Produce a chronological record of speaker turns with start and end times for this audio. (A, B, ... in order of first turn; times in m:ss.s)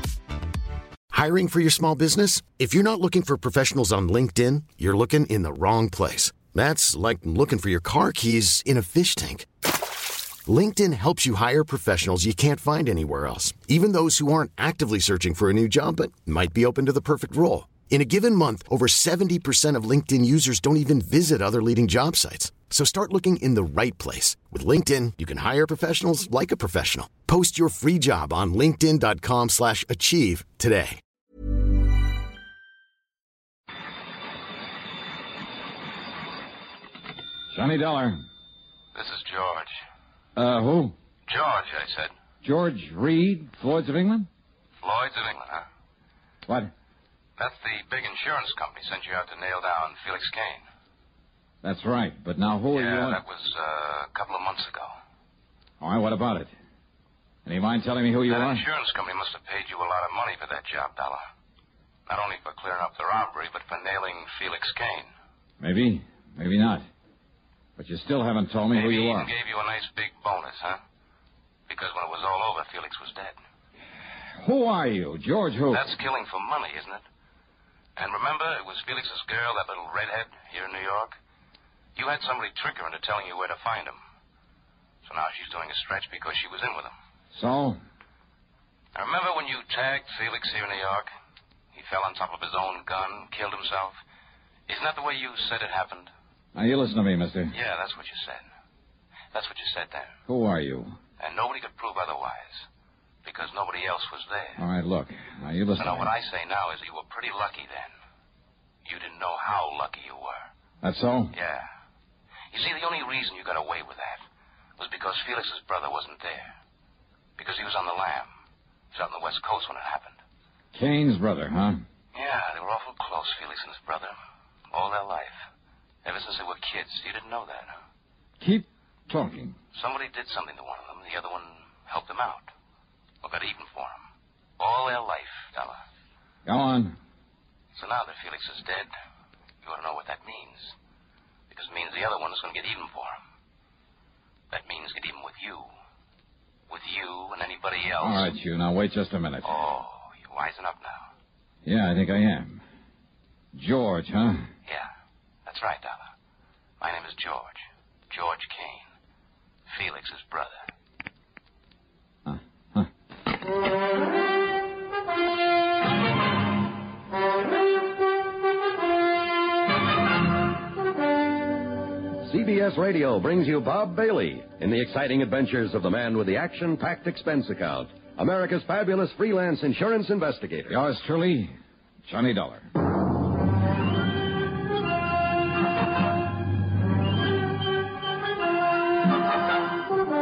0:01.1-0:09.5 A
0:10.4-0:31.0 A
0:37.5-0:38.2 B
0:38.9-0:39.7 C
0:40.4-0:41.0 B
0:41.3-0:42.1 C
0:42.4-0:44.3 B
0:44.8-0:45.6 C
0:46.5-0:46.7 B
0:47.4-0:50.6 C
0:51.6-0:53.2 B
0:52.7-0:54.9 C
0:55.8-0:56.5 B
0:57.4-0:58.6 B
0:58.3-1:01.2 C
1:02.1-1:05.1 C
1:05.6-1:06.9 B
1:07.8-1:09.3 B
1:08.7-1:10.8 C
1:11.7-1:13.4 C
1:14.4-1:15.9 B
1:15.7-1:17.0 C
1:18.0-1:21.1 C
1:22.0-1:24.0 C
1:25.0-1:26.9 C
1:27.3-1:27.8 B
1:28.9-1:31.1 C
1:31.7-1:34.0 C
1:34.7-1:36.1 C
1:36.5-1:37.5 B
1:37.5-1:38.4 C
1:39.3-1:40.2 C
1:40.3-1:41.0 B
1:41.2-1:42.7 C
1:43.2-1:44.6 C
1:44.6-1:46.1 B
1:45.8-1:47.9 C
1:48.8-1:50.5 C
1:50.8-1:51.3 B
1:51.3-1:51.7 C
1:52.5-1:54.2 C
1:54.8-1:56.5 C
1:57.4-1:58.3 C
1:58.9-2:00.2 C
2:00.7-2:01.8 B
2:02.1-2:04.2 C
2:04.7-2:05.4 C
2:06.0-2:07.8 C
2:08.4-2:09.6 B
2:09.7-2:12.5 C
2:13.2-2:14.0 C
2:14.6-2:15.8 C
2:16.4-2:17.0 B
2:17.7-2:18.9 C
2:19.6-2:20.7 C
2:21.5-2:23.2 C
2:24.5-2:25.7 C
2:26.7-2:28.3 C
2:28.0-2:29.7 B
2:29.4-2:31.1 C
2:31.6-2:32.6 B
2:33.5-2:34.5 B
2:35.4-2:36.1 C
2:36.8-2:38.8 C
2:39.7-2:40.6 C
2:42.2-2:42.9 B
2:52.2-3:00.7 D
3:00.7-3:01.5 B
3:02.0-3:02.7 B